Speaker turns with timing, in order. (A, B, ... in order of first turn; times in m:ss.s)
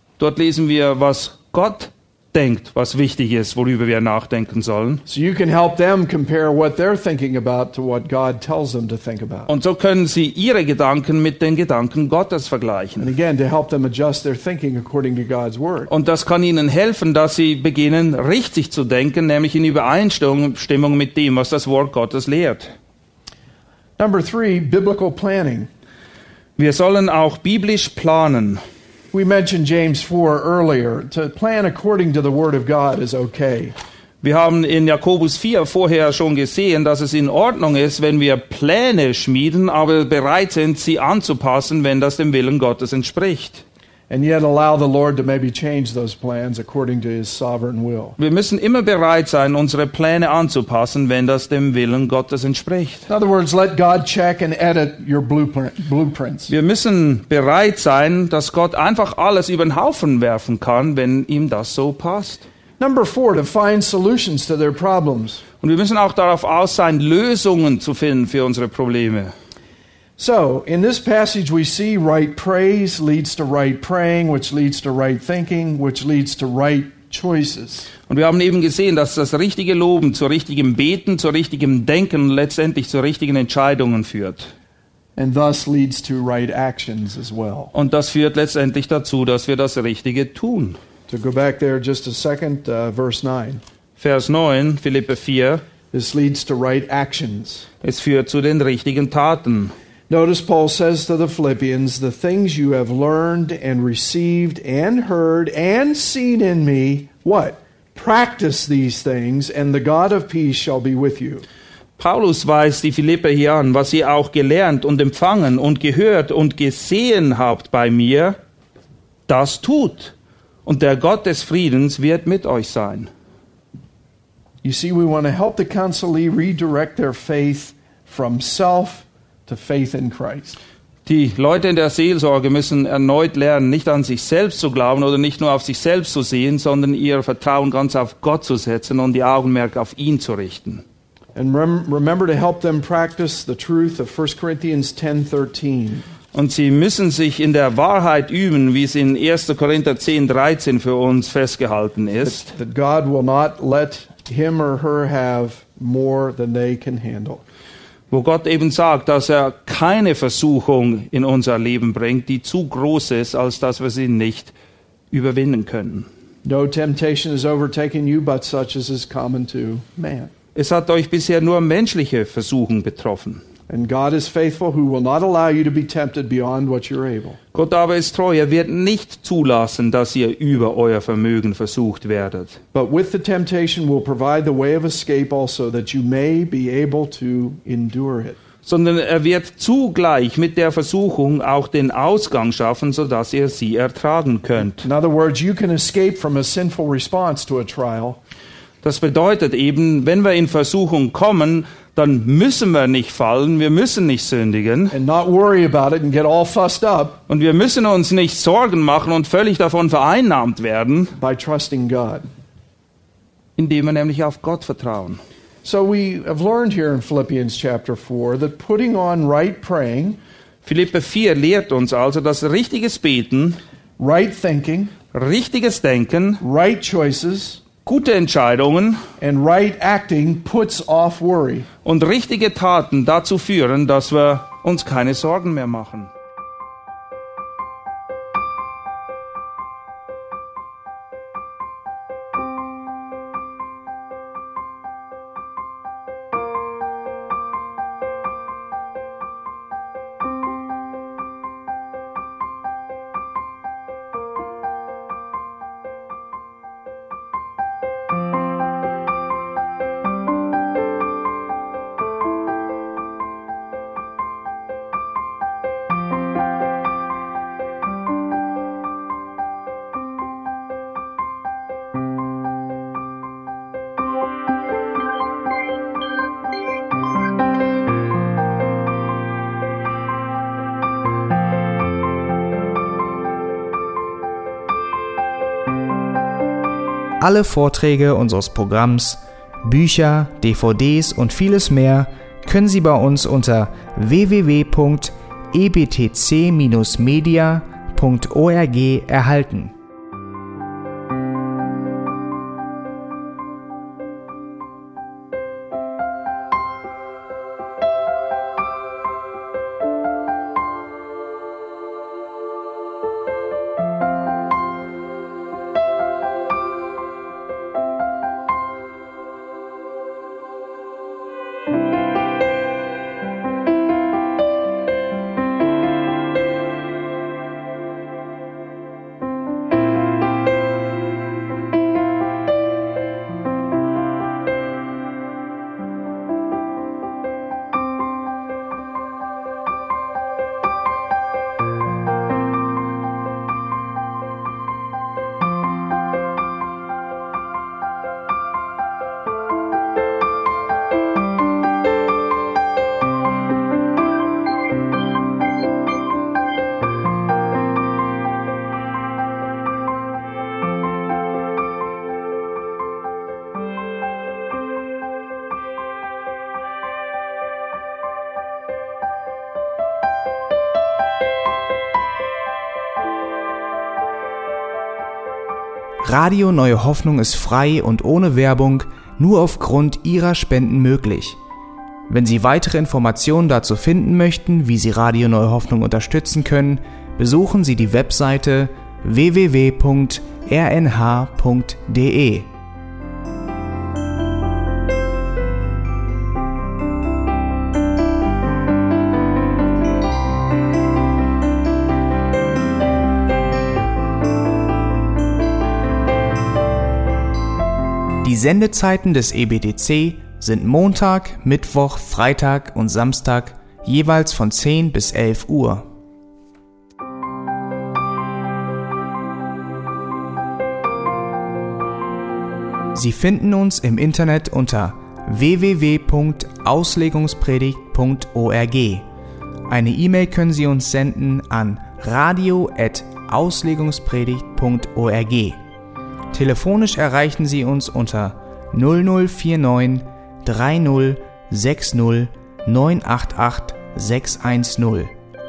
0:00.2-0:05.0 A
0:05.1-0:09.5 B
0:09.5-0:13.1 A
0:13.0-0:15.9 B
0:15.9-0:22.7 A
0:24.0-0:25.7 B
0:26.6-0:28.6 A
0:29.1-0:33.8 B
0:34.2-0:43.6 A
0:44.1-0:48.2 B
0:48.2-0:53.1 A
0:53.1-0:56.5 B
0:56.5-1:02.4 A
1:02.8-1:05.4 B
1:05.6-1:09.3 A
1:10.2-1:17.9 B
1:18.1-1:24.5 A
1:25.2-1:27.7 B
1:27.7-1:30.8 A
1:31.1-1:33.6 B
1:34.0-1:35.6 A
1:35.9-1:37.7 B
1:37.8-1:39.7 A
1:40.1-1:51.4 B
1:52.0-1:58.4 A
1:59.3-2:00.1 A
2:00.6-2:03.1 A
2:04.6-2:10.6 B
2:11.1-2:20.8 A
2:21.4-2:26.1 B
2:26.3-2:32.5 A
2:32.2-2:37.4 B
2:38.1-2:44.5 A
2:45.1-2:46.1 A
2:46.4-2:50.3 B
2:50.6-2:53.4 A
2:53.7-2:57.4 B
2:57.5-3:02.6 A
3:02.7-3:08.4 B
3:08.6-3:14.9 A
3:14.8-3:18.2 B
3:18.8-3:25.0 A
3:24.9-3:27.2 B
3:27.3-3:31.1 A
3:31.2-3:32.3 B
3:33.6-3:35.2 A
3:35.6-3:40.2 B
3:40.6-3:43.6 A
3:44.0-3:44.9 B
3:45.1-3:46.4 A
3:46.4-3:47.6 B
3:47.8-3:49.0 A
3:49.2-3:51.7 B
3:51.8-3:56.1 A
4:47.2-4:59.7 C
6:16.0-6:21.4 C
6:22.1-6:32.5 C
6:48.2-6:55.8 C
7:02.9-7:09.1 C
7:09.7-7:15.6 C
7:16.3-7:25.1 C